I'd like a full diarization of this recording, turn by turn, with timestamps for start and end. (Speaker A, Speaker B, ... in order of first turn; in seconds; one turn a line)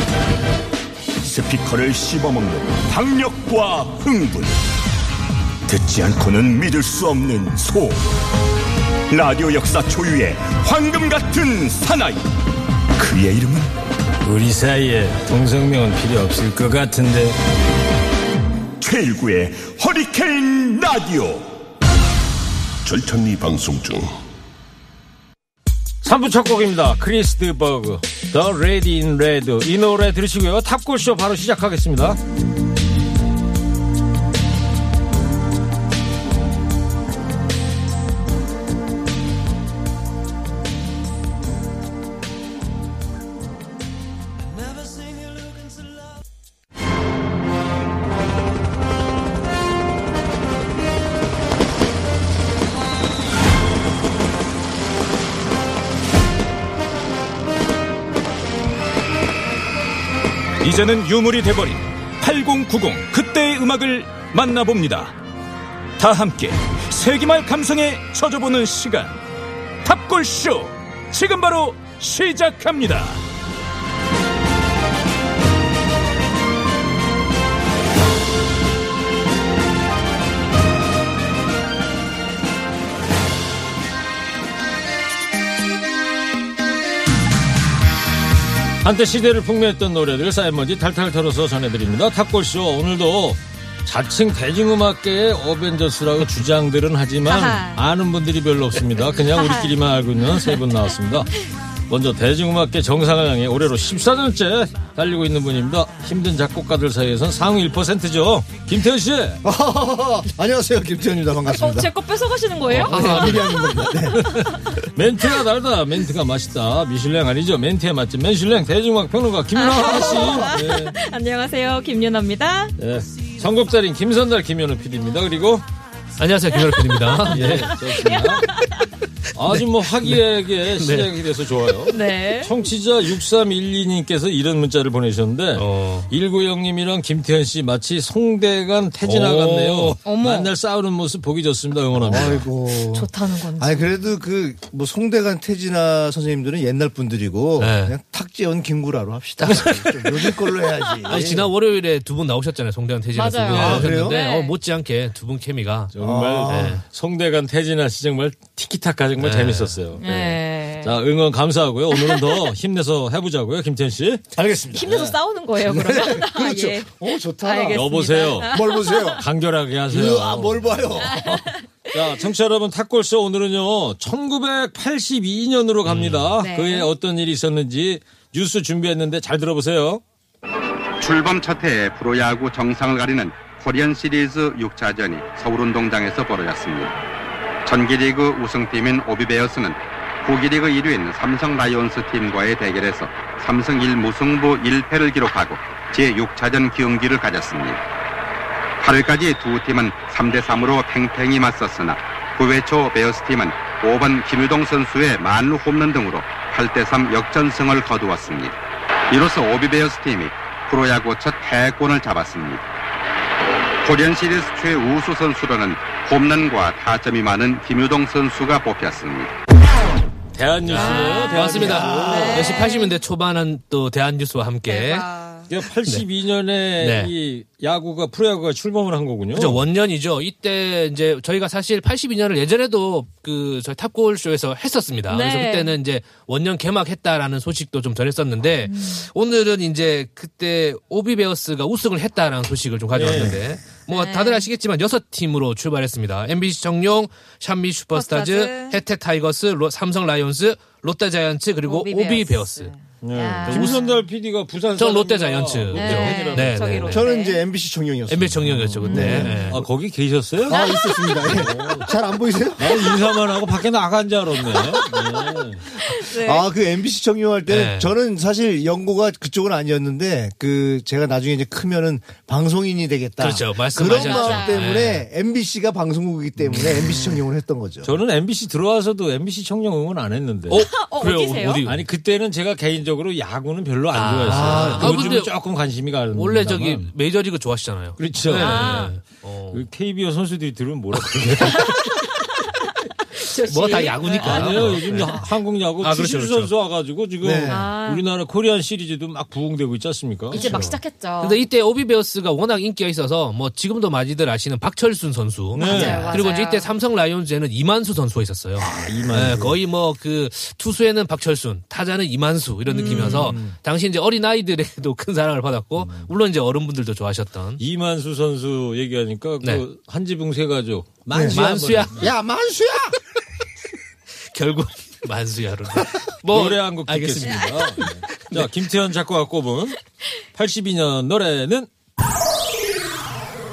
Speaker A: 1.2-4.6
Speaker A: 5.7-8.0
Speaker A: 9.1-12.2
Speaker A: 12.9-13.7
Speaker B: 14.2-17.4
Speaker A: 18.8-21.5
Speaker A: 22.8-24.1
Speaker B: 26.0-32.2
Speaker C: 60.6-65.1
Speaker C: 66.0-69.2
Speaker C: 69.8-73.2
Speaker B: 88.8-101.3
Speaker D: 97.2-97.8
Speaker D: 99.0-99.7
Speaker D: 100.2-100.6
Speaker B: 101.9-109.4
Speaker E: 109.4-111.9
Speaker D: 111.5-114.8
Speaker F: 112.7-113.5
Speaker E: 112.8-114.3
Speaker B: 114.2-120.9
Speaker D: 119.5-122.7
Speaker B: 122.8-125.6
Speaker F: 126.2-127.8
Speaker D: 126.5-128.9
Speaker B: 127.3-128.5
Speaker B: 129.3-142.4
Speaker F: 129.5-130.2
Speaker F: 130.7-131.1
Speaker D: 131.9-132.6
Speaker F: 135.5-136.1
Speaker F: 139.0-140.0
Speaker D: 140.0-140.5
Speaker E: 141.9-151.5
Speaker D: 142.9-143.9
Speaker F: 147.6-147.9
Speaker F: 149.4-149.7
Speaker B: 149.5-149.7
Speaker F: 151.0-155.9
Speaker D: 153.1-154.5
Speaker E: 153.5-154.2
Speaker B: 155.9-165.2
Speaker E: 156.0-156.8
Speaker F: 156.4-156.8
Speaker F: 159.2-159.8
Speaker D: 160.0-160.9
Speaker D: 161.9-162.5
Speaker D: 164.7-169.2
Speaker E: 165.7-169.2
Speaker B: 167.7-168.6
Speaker B: 169.2-170.8
Speaker E: 169.9-171.5
Speaker D: 171.0-171.9
Speaker B: 171.9-180.0
Speaker F: 175.9-176.3
Speaker D: 176.4-176.9
Speaker G: 181.0-187.0
Speaker G: 187.6-197.8
Speaker G: 198.8-208.6
Speaker G: 209.1-212.6
Speaker G: 213.8-219.3
Speaker B: 220.3-222.7
Speaker D: 220.7-223.0
Speaker F: 220.8-225.1
Speaker E: 221.6-222.3
Speaker D: 224.7-225.5
Speaker B: 225.5-229.6
Speaker F: 226.8-227.1
Speaker F: 229.3-252.7
Speaker D: 235.1-235.7
Speaker D: 238.7-239.1
Speaker B: 242.9-243.4
Speaker D: 243.9-244.5
Speaker D: 247.9-248.8
Speaker D: 251.6-254.0
Speaker B: 253.0-256.9
Speaker F: 253.4-253.9
Speaker F: 254.8-257.1
Speaker D: 255.7-257.4
Speaker E: 256.9-259.6
Speaker F: 258.1-259.6
Speaker B: 258.5-260.6
Speaker D: 258.8-259.5
Speaker E: 260.4-262.9
Speaker D: 260.5-261.7
Speaker B: 261.2-261.9
Speaker B: 262.6-265.7
Speaker D: 262.6-263.2
Speaker D: 264.5-266.5
Speaker E: 266.2-277.9
Speaker F: 267.5-267.9
Speaker F: 273.2-275.0
Speaker D: 273.8-274.7
Speaker B: 276.4-276.8
Speaker B: 277.8-280.7
Speaker F: 280.5-281.8
Speaker D: 280.5-281.6
Speaker B: 281.6-286.9
Speaker F: 283.9-285.3
Speaker E: 284.3-285.1
Speaker F: 286.1-289.6
Speaker B: 288.0-291.8
Speaker D: 288.3-288.9
Speaker F: 291.2-291.8
Speaker D: 291.5-292.5
Speaker D: 293.1-295.1
Speaker F: 293.4-295.2
Speaker B: 294.2-300.8
Speaker F: 295.8-296.5
Speaker E: 297.2-297.6
Speaker D: 297.5-298.0
Speaker D: 300.3-301.4
Speaker F: 301.2-317.6
Speaker B: 305.5-306.1
Speaker D: 305.6-306.7
Speaker B: 308.6-309.6
Speaker D: 312.7-313.4
Speaker E: 313.0-313.5
Speaker B: 315.8-316.1
Speaker B: 317.6-322.1
Speaker E: 321.1-321.4
Speaker F: 321.1-322.1
Speaker E: 322.0-322.9
Speaker F: 324.3-328.5
Speaker B: 326.2-329.8
Speaker B: 330.3-331.7